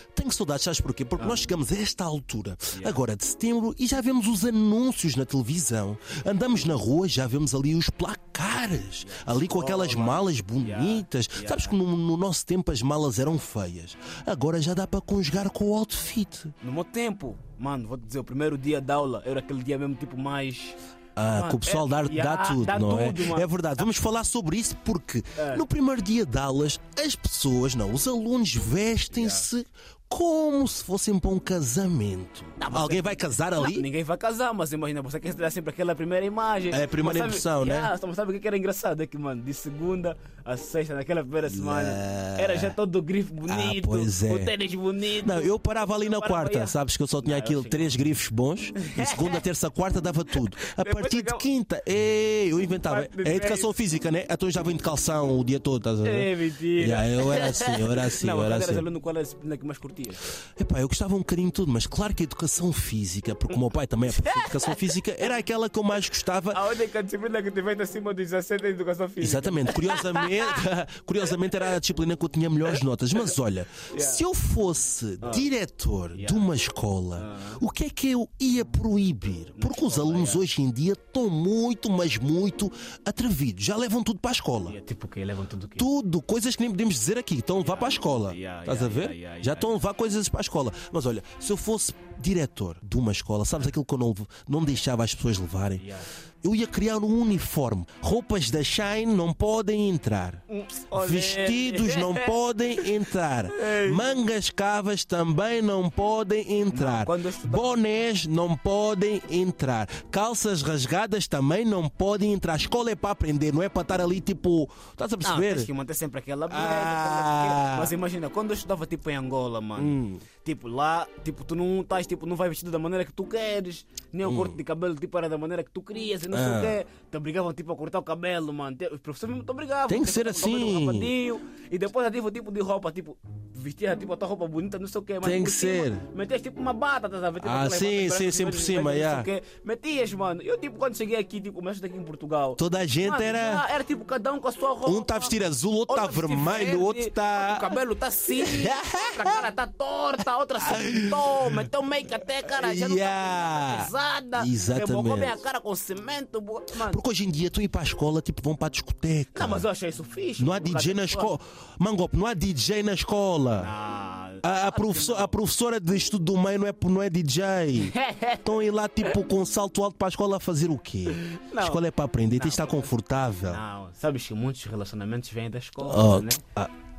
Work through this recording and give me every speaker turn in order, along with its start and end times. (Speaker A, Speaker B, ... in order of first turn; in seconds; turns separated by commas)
Speaker A: 0.1-16.5, Speaker B: 2.7-3.0, Speaker B: 9.0-11.7, Speaker B: 16.6-23.8, Speaker A: 21.1-33.9, Speaker B: 25.4-25.6, Speaker B: 29.1-29.5, Speaker B: 32.6-48.0, Speaker A: 36.7-37.9, Speaker A: 41.5-42.8, Speaker A: 43.5-44.5, Speaker A: 45.2-58.8, Speaker B: 48.8-49.4, Speaker B: 50.3-51.5, Speaker B: 52.8-53.7, Speaker B: 56.0-60.3, Speaker A: 60.6-66.6, Speaker B: 64.1-64.9, Speaker B: 66.5-70.6, Speaker A: 69.2-84.8, Speaker B: 71.4-71.7, Speaker B: 73.9-74.2, Speaker B: 75.2-75.5, Speaker B: 76.1-76.5, Speaker B: 77.2-77.6, Speaker B: 79.5-80.4, Speaker B: 84.6-85.8, Speaker A: 85.8-95.8, Speaker B: 87.6-89.8, Speaker B: 95.8-96.1, Speaker A: 96.4-100.4, Speaker B: 100.5-102.8, Speaker A: 100.9-115.7, Speaker B: 103.5-104.1, Speaker B: 106.7-107.8, Speaker B: 115.2-145.3, Speaker A: 116.5-117.9, Speaker A: 119.8-120.2, Speaker A: 124.2-124.6, Speaker A: 126.3-126.8, Speaker A: 129.9-131.1, Speaker A: 135.2-136.0, Speaker A: 137.4-139.3, Speaker A: 142.6-143.6, Speaker A: 144.8-147.8, Speaker B: 145.9-157.0, Speaker A: 148.4-149.5, Speaker A: 150.6-151.6, Speaker A: 152.4-155.4, Speaker A: 156.8-159.7, Speaker B: 159.3-161.3, Speaker A: 160.4-163.7, Speaker B: 163.6-165.3, Speaker A: 164.4-173.6, Speaker B: 167.8-168.4, Speaker B: 171.1-172.9, Speaker B: 173.4-176.4, Speaker A: 175.8-176.7